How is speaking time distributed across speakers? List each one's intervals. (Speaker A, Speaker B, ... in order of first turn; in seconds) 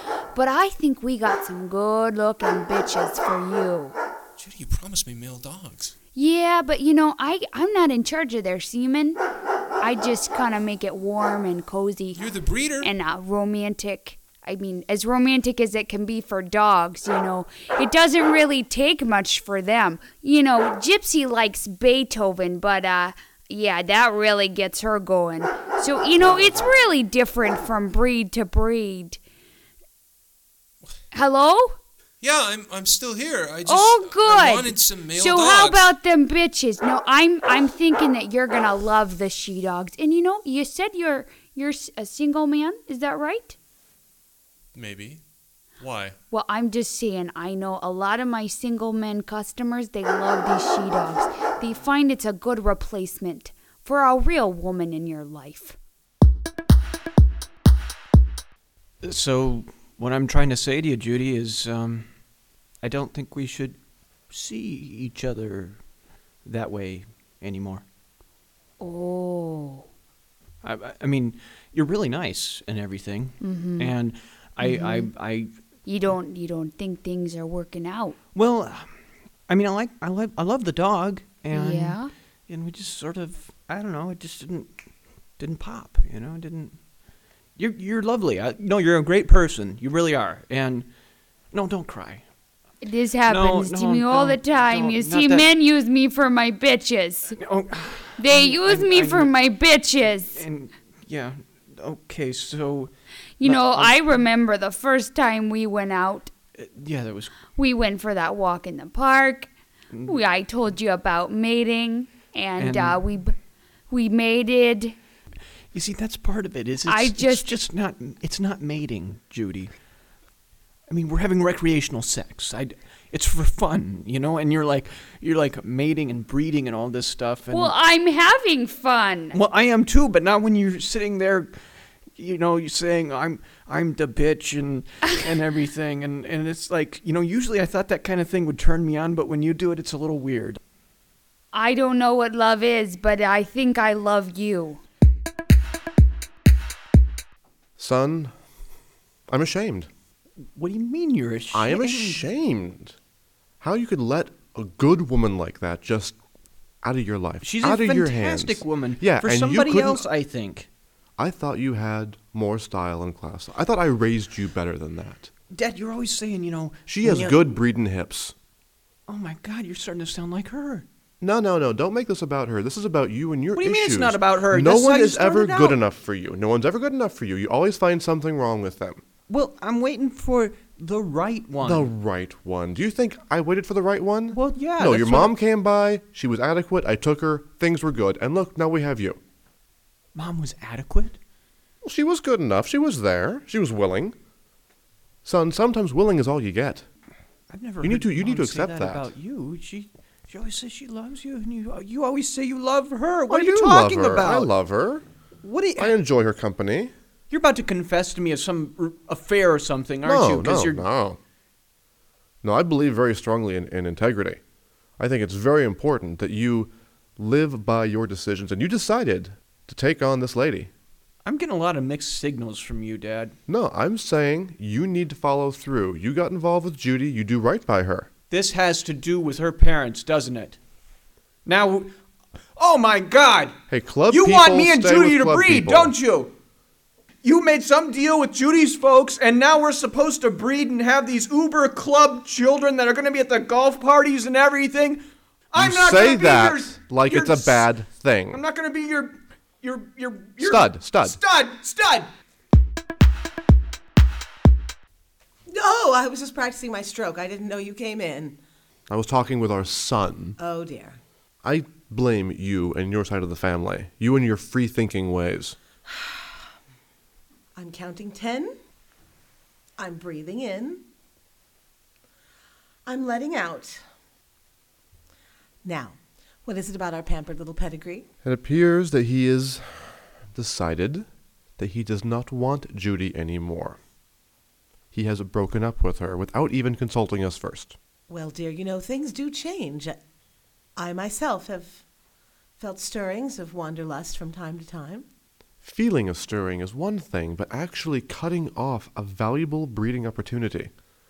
Speaker A: 0.3-4.0, 6.1-9.2, 9.8-29.2, 31.1-31.8, 33.6-43.6, 46.3-55.8, 68.8-69.8, 73.4-73.9, 74.6-75.1, 75.8-78.2, 81.5-82.1, 92.8-97.4, 98.2-100.4, 103.4-106.3, 107.5-109.5, 110.0-113.3, 113.9-115.0, 116.9-117.6, 127.5-129.4, 141.5-144.8
Speaker B: 4.4-5.9, 12.1-12.9, 32.2-35.9, 44.7-45.2, 45.8-46.1
Speaker C: 59.0-62.1, 62.8-63.8, 64.3-65.8, 66.4-67.8, 70.6-75.5, 78.3-78.9, 79.5-84.7, 85.4-86.8, 87.6-90.9, 91.5-92.2, 93.2-95.5, 97.3-99.3, 100.0-104.2, 106.5-107.4, 109.9-110.2, 112.6-113.0, 115.7-119.7, 120.9-127.7, 129.3-131.5, 132.2-140.6, 150.5-152.3, 157.4-160.7, 165.5-167.6, 169.1-170.8, 173.5-175.8, 179.3-181.9, 184.3-185.3, 190.1-191.2, 197.5-204.5, 205.4-205.9, 207.3-210.8, 221.2-223.3, 228.3-230.6, 231.4-231.9, 232.6-233.6, 234.1-236.3, 237.2-247.7, 248.3-252.1
Speaker D: 147.8-148.3, 149.3-149.9, 151.5-152.9, 153.6-156.2, 156.8-160.0, 161.2-165.3, 166.8-168.3, 171.2-179.0, 181.6-189.2, 191.8-194.1, 195.2-196.8, 197.8-199.1, 203.3-205.0, 205.8-206.9, 210.0-211.2, 212.4-214.4, 215.0-220.7, 223.5-228.1, 233.7-235.9, 245.5-248.4, 250.4-251.2, 258.9-260.4, 261.4-265.6, 278.2-281.1, 281.6-283.8, 284.9-287.7, 295.6-300.7
Speaker E: 255.5-258.4, 260.4-261.0, 265.9-266.3, 267.5-268.5, 269.8-270.8, 272.9-273.8, 275.6-278.1, 288.1-290.0, 290.8-291.8, 292.6-295.1